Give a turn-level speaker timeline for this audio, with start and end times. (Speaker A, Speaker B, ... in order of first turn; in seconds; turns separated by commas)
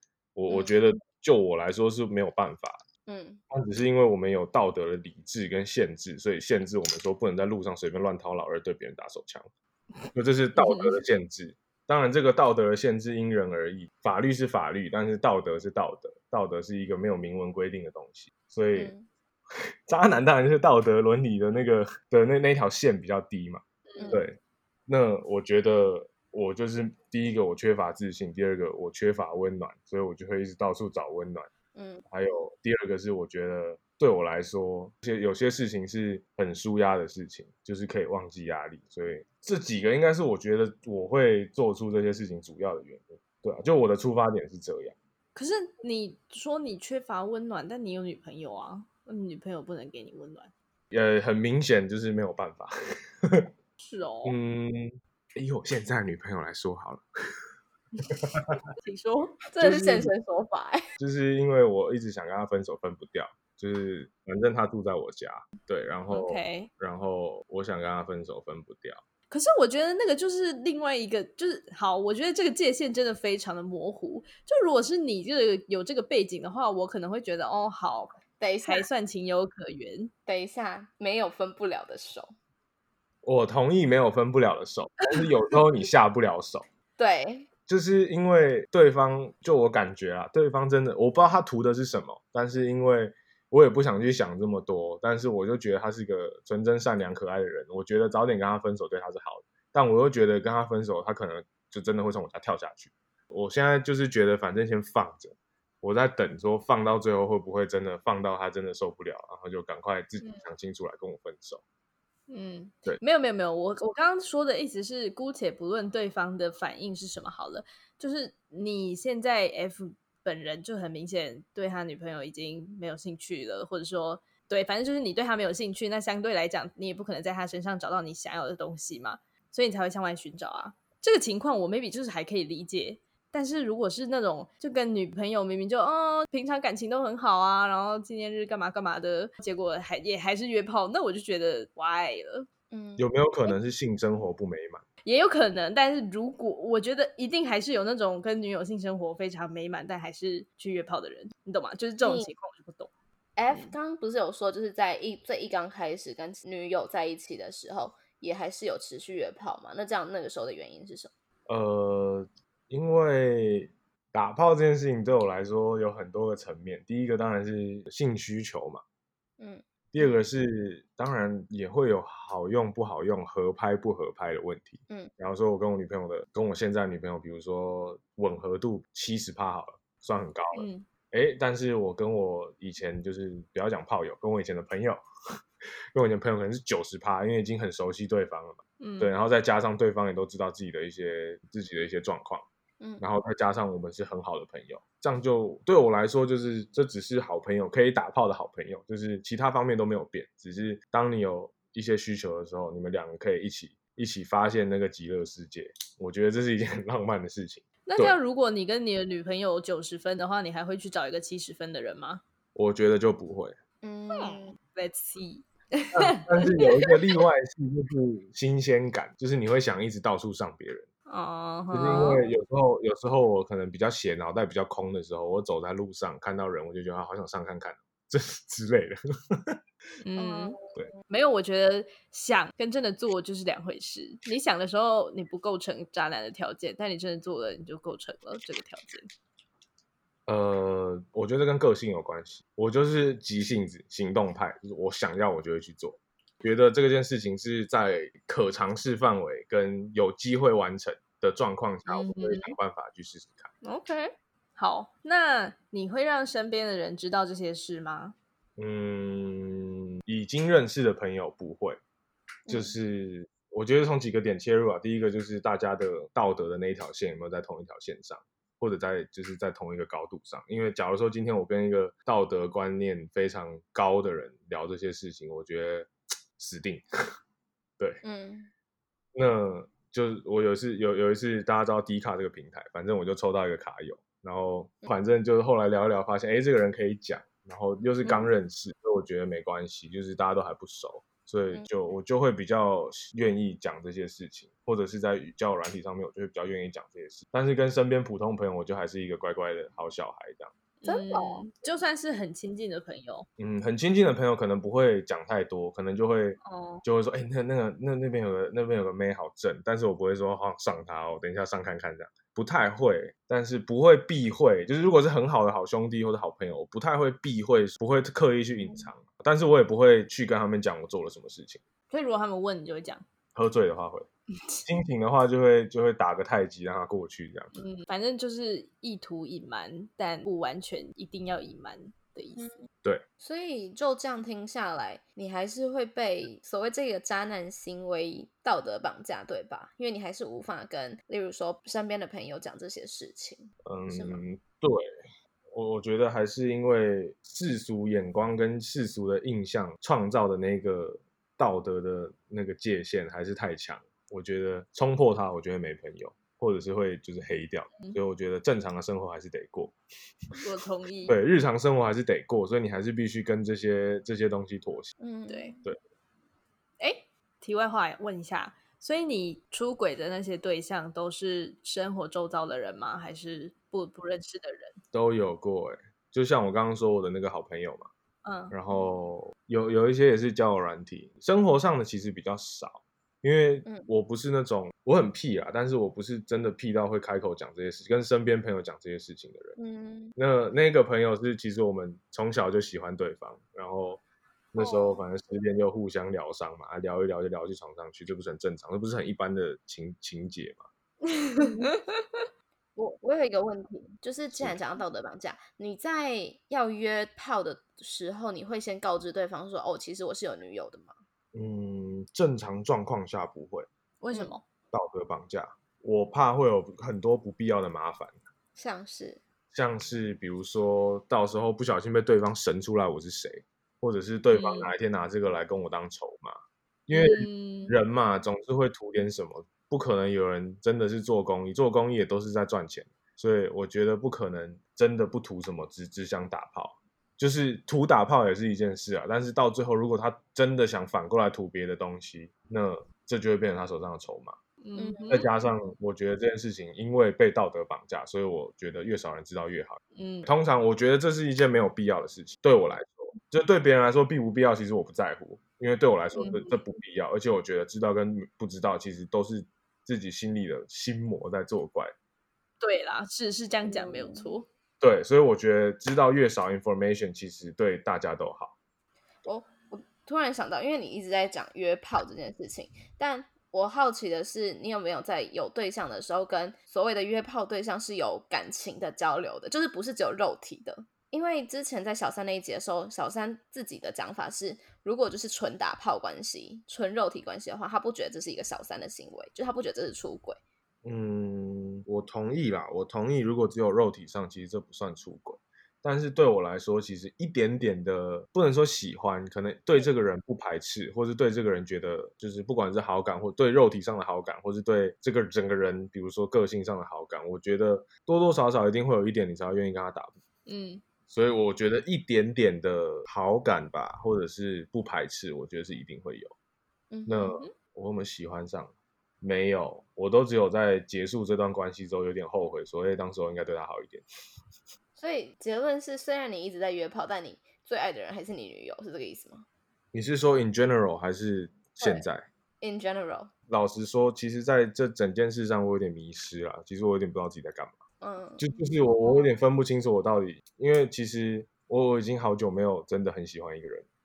Speaker A: 0.3-2.8, Speaker B: 0.5-0.8, Speaker B: 3.1-3.4, Speaker A: 3.5-9.5, Speaker A: 10.2-18.9, Speaker C: 10.6-10.9, Speaker B: 18.8-19.1, Speaker A: 19.9-24.4, Speaker C: 23.9-24.2, Speaker B: 24.0-24.2, Speaker A: 24.9-31.5, Speaker B: 31.8-32.0, Speaker A: 32.1-45.0, Speaker C: 45.4-50.5, Speaker A: 50.9-52.7, Speaker A: 53.2-53.5, Speaker C: 53.8-54.4, Speaker A: 54.2-57.0, Speaker A: 58.1-58.5, Speaker C: 58.8-59.4, Speaker B: 59.5-60.9, Speaker A: 59.6-60.1, Speaker A: 61.0-69.0, Speaker C: 66.1-66.7, Speaker C: 69.3-80.1, Speaker B: 78.4-78.9, Speaker B: 80.3-82.3, Speaker A: 83.2-86.7, Speaker B: 87.0-87.5, Speaker A: 87.7-111.6, Speaker C: 110.2-110.5, Speaker C: 112.3-142.5, Speaker B: 142.7-143.1, Speaker A: 143.0-144.8, Speaker C: 145.1-152.9, Speaker B: 152.0-152.3, Speaker B: 153.4-161.1, Speaker A: 161.5-168.8, Speaker B: 169.4-170.1, Speaker A: 169.9-185.0, Speaker C: 180.6-180.9, Speaker A: 185.9-192.4, Speaker C: 188.8-189.1, Speaker B: 192.8-193.1, Speaker A: 193.0-208.2, Speaker C: 207.9-212.2, Speaker A: 212.6-213.6, Speaker B: 213.8-214.6, Speaker C: 214.1-216.9, Speaker A: 215.9-220.9, Speaker C: 221.1-222.2, Speaker A: 221.7-229.6, Speaker C: 230.0-230.6, Speaker B: 230.2-230.6, Speaker C: 231.1-239.1, Speaker A: 240.3-253.5, Speaker C: 251.9-252.6, Speaker C: 253.6-258.1, Speaker A: 258.6-261.8, Speaker B: 262.5-262.8, Speaker A: 262.5-276.9, Speaker B: 278.0-278.5, Speaker A: 279.1-300.5, Speaker C: 300.8-303.3, Speaker B: 300.9-301.4, Speaker A: 303.4-321.6, Speaker C: 306.4-306.8, Speaker C: 321.9-323.0, Speaker A: 323.4-324.1, Speaker A: 324.6-327.5, Speaker C: 327.6-332.5, Speaker B: 333.2-344.2, Speaker A: 343.6-344.9, Speaker A: 345.6-359.8, Speaker C: 360.4-361.2, Speaker A: 361.1-364.9, Speaker B: 365.0-365.6, Speaker C: 365.3-365.6, Speaker C: 366.8-374.8, Speaker A: 374.9-377.9, Speaker C: 378.2-378.5, Speaker A: 378.5-389.6, Speaker B: 389.6-390.1, Speaker A: 390.2-394.0, Speaker A: 394.5-400.6, Speaker C: 401.1-401.7, Speaker B: 401.4-401.8, Speaker B: 402.8-410.9, Speaker A: 411.3-413.7, Speaker C: 414.0-414.4, Speaker A: 414.7-418.1, Speaker B: 418.6-419.2, Speaker A: 419.5-426.4, Speaker C: 424.3-424.7, Speaker A: 426.9-444.4, Speaker C: 426.9-427.8, Speaker C: 444.6-445.3, Speaker B: 444.8-445.3, Speaker A: 445.1-461.9, Speaker C: 449.9-450.3, Speaker C: 456.2-456.6, Speaker C: 462.6-464.5, Speaker B: 463.6-464.3, Speaker A: 464.8-468.5, Speaker B: 469.2-490.4, Speaker A: 490.9-510.2, Speaker C: 510.5-510.8, Speaker A: 511.1-516.3, Speaker B: 516.9-517.4, Speaker A: 517.1-524.0, Speaker B: 525.0-529.5, Speaker A: 529.9-532.3, Speaker B: 531.8-532.0, Speaker B: 532.6-533.3, Speaker A: 533.5-537.8, Speaker B: 538.0-539.3, Speaker A: 538.4-543.9